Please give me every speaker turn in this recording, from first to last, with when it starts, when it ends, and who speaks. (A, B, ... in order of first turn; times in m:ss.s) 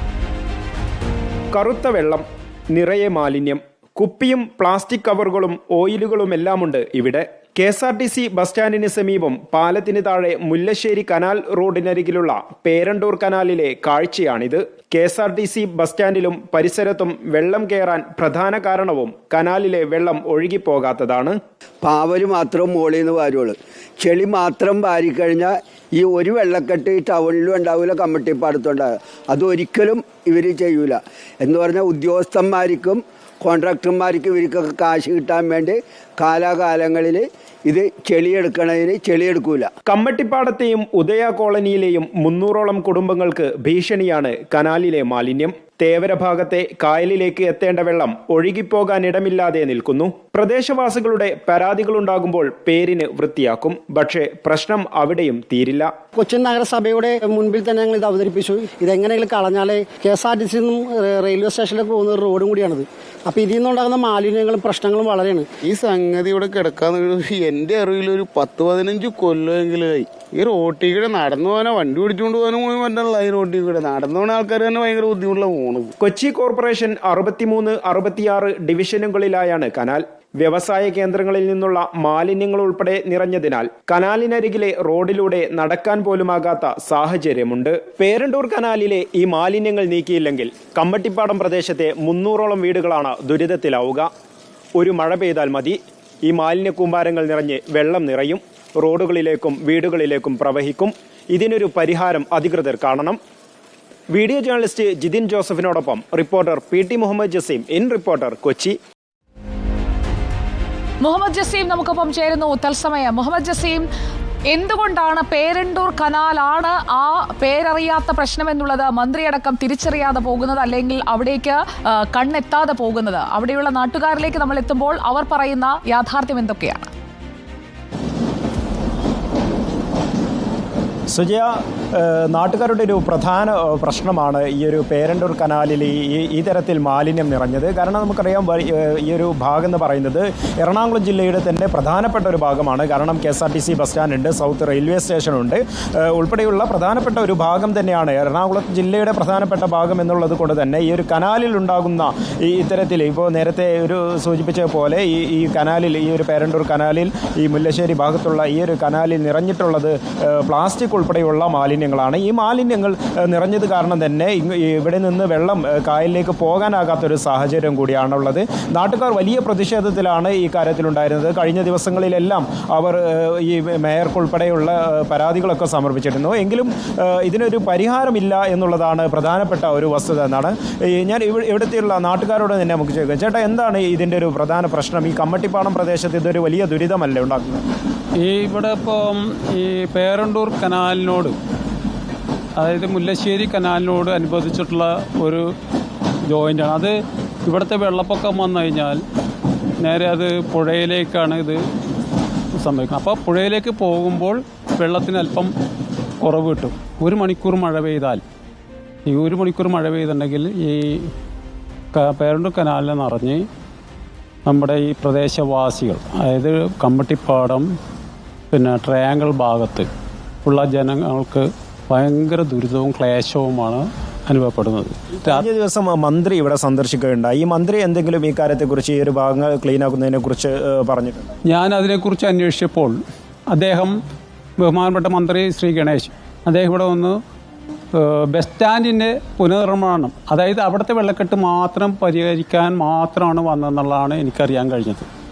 0:01.5-0:21.4 A
0:21.8-0:39.7 B
0:39.8-0:55.9 A
0:56.1-1:05.5 C
1:05.6-1:15.9 D
1:16.0-1:34.1 A
1:34.8-1:43.2 A
1:44.1-1:48.8 A
1:51.0-1:53.8 E
1:54.5-2:06.9 E
2:11.1-3:07.6 A
3:08.2-3:11.3 F
3:12.6-3:15.5 F
3:16.3-3:16.9 F
3:17.4-3:19.0 F
3:19.8-3:21.6 F
3:22.6-3:25.5 F
3:26.2-3:28.2 F
3:29.0-3:31.1 F
3:31.9-3:33.4 F
3:34.4-3:37.6 F
3:38.5-3:39.9 F
3:40.4-3:45.4 F
3:45.2-3:51.4 A
3:51.5-3:52.9 F
3:53.5-3:53.9 F
3:54.6-3:57.2 F
3:58.0-4:05.1 F